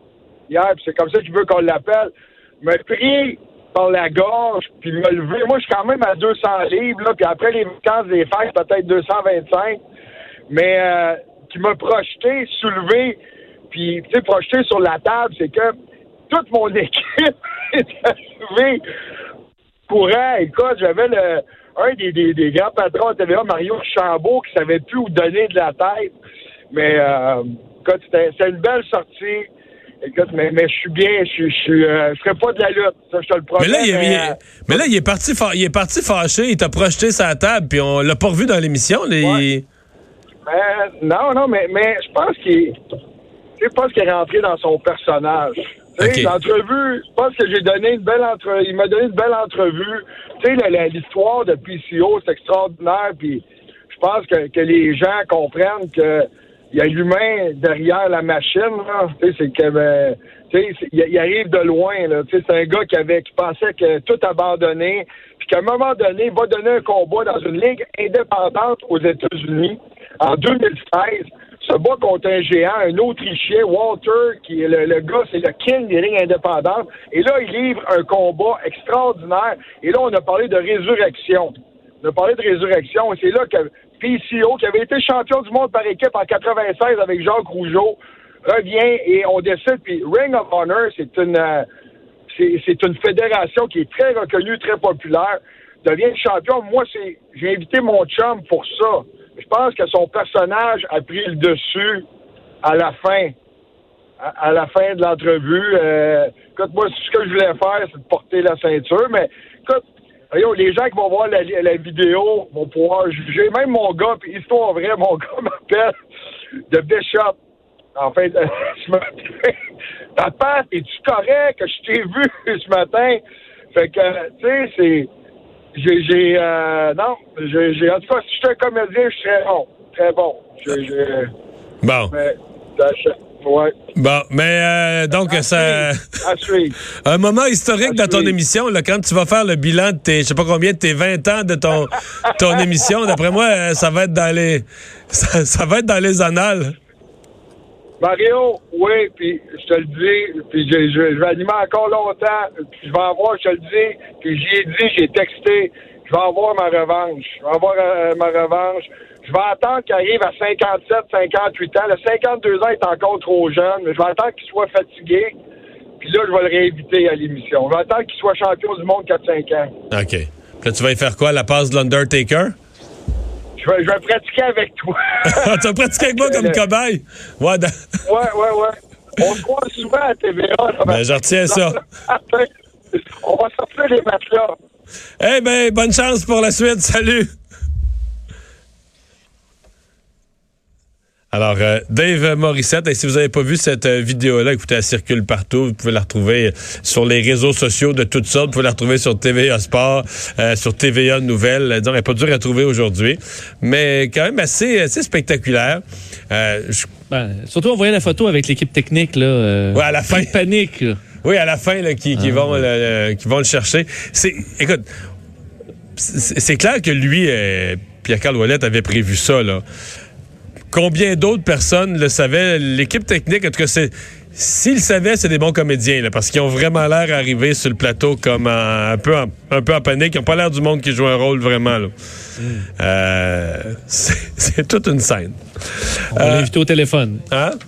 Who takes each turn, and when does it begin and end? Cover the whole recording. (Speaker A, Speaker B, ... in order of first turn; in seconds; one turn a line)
Speaker A: 0.5-9.8
Speaker A: 10.5-13.2
Speaker A: 13.7-15.7
Speaker A: 16.3-18.8
Speaker A: 19.9-26.1
Speaker A: 26.7-29.5
Speaker A: 30.0-34.8
Speaker B: 33.6-39.7
Speaker A: 40.5-42.8
Speaker A: 43.6-91.7
Speaker B: 46.0-46.3
Speaker A: 92.3-102.1
Speaker A: 102.6-103.3
Speaker A: 104.2-116.0
Speaker A: 116.7-117.4
Speaker A: 118.0-119.6
Speaker A: 120.2-123.2
Speaker A: 123.7-125.1
Speaker A: 125.8-131.3
Speaker B: 131.8-132.1
Speaker A: 132.1-133.8
Speaker B: 133.9-136.2
Speaker A: 135.3-136.8
Speaker B: 137.1-146.8
Speaker A: 137.8-138.4
Speaker A: 148.0-165.4
Speaker A: 166.0-169.7
Speaker B: 169.9-172.6
Speaker A: 173.6-176.6
Speaker B: 175.2-177.8
Speaker A: 178.1-184.6
Speaker B: 180.9-181.8
Speaker B: 185.2-187.3
Speaker B: 191.3-206.9
Speaker C: 207.1-211.0
Speaker B: 209.7-210.4
Speaker B: 211.2-214.9
Speaker C: 212.2-212.6
Speaker B: 216.0-219.6
Speaker B: 220.7-231.9
Speaker C: 232.4-232.7
Speaker B: 232.8-236.5
Speaker C: 236.1-237.2
Speaker B: 237.3-237.6